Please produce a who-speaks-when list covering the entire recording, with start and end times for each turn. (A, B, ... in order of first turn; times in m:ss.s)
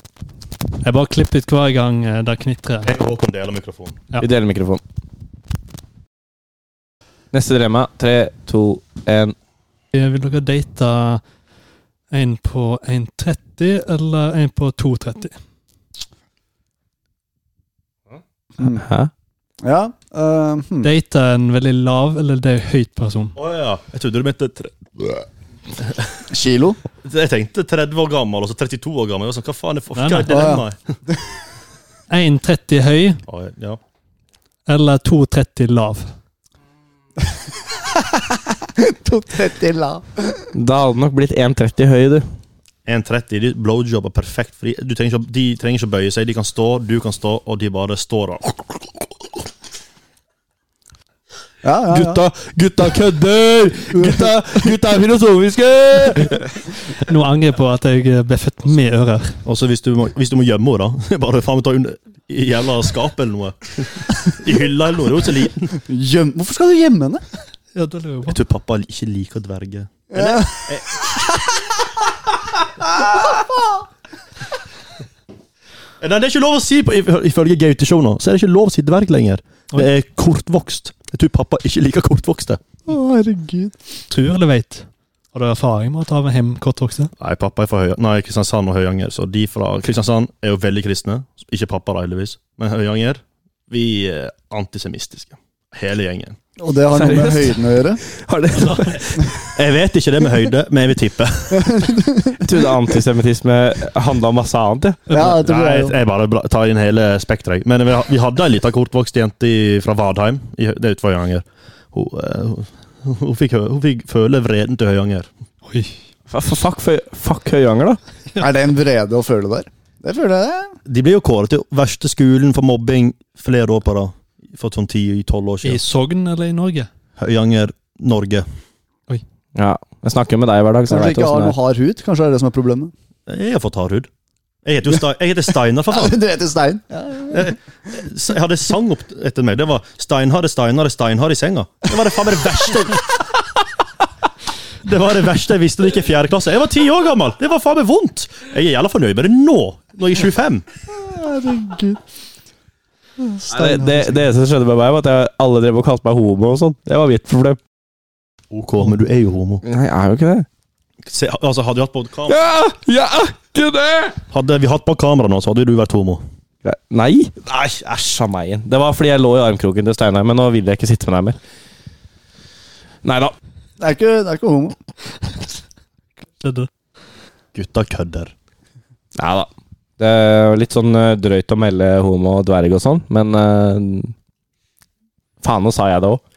0:00.8-0:02.9 A
0:02.8-0:04.0 B
0:04.2-0:04.8 C
0:07.3-0:09.3 C
0:09.9-0:11.2 A
0:12.1-0:15.3 A
0:18.6-0:18.8 D
0:18.6-0:19.1 C
0:19.6-0:20.9 D
0:20.8-0:23.3 A
0:23.4-0:25.1 B
0:25.8-0:26.2 B
0:26.3-0:26.8 D
0:27.0-0:30.8 B
0:29.9-0:30.5 A
0:30.3-0:31.2 D
0:32.1-0:33.2 A
0:33.3-0:33.8 B
0:34.7-0:36.1 A
0:37.9-0:40.4 D
0:40.5-0:42.2 C
0:42.8-0:48.8 B
0:51.6-0:52.2 D
0:51.9-0:56.5 C
0:53.9-0:54.2 D
0:56.9-0:59.4 A
0:59.4-1:05.7 B
1:05.8-1:07.2 D
1:07.7-1:08.4 A
1:08.3-1:11.0 B
1:10.1-1:11.8 D
1:12.9-1:13.8 D
1:16.0-1:22.6 B
1:22.8-1:23.8 D
1:24.1-1:27.1 A
1:27.2-1:36.4 B
1:36.6-1:38.0 D
1:36.9-1:39.5 C
1:38.5-1:39.0 A
1:39.5-1:41.9 B
1:41.5-1:42.4 D
1:42.4-1:45.0 C
1:45.1-1:45.4 A
1:45.1-1:45.9 D
1:45.2-1:55.3 B
1:55.6-1:56.0 A
1:56.3-1:58.0 C
1:58.4-2:00.8 D
2:00.8-2:05.8 B
2:05.6-2:06.9 A
2:07.2-2:08.4 B
2:09.5-2:11.6 C
2:10.9-2:12.9 D
2:13.3-2:14.1 B
2:14.6-2:16.2 B
2:15.9-2:17.6 D
2:17.3-2:23.2 B
2:24.8-2:30.6 B
2:30.9-2:32.0 D
2:33.2-2:34.3 D
2:33.5-2:37.6 C
2:38.5-2:39.6 B
2:39.6-2:40.5 C
2:41.0-2:42.4 B
2:42.3-2:44.2 C
2:44.3-2:46.2 B
2:46.6-2:51.4 C
2:53.0-2:53.3 C
2:53.8-2:54.8 D
2:56.4-2:56.7 A
2:57.5-2:58.3 B
2:59.2-3:04.1 C
3:05.4-3:06.2 C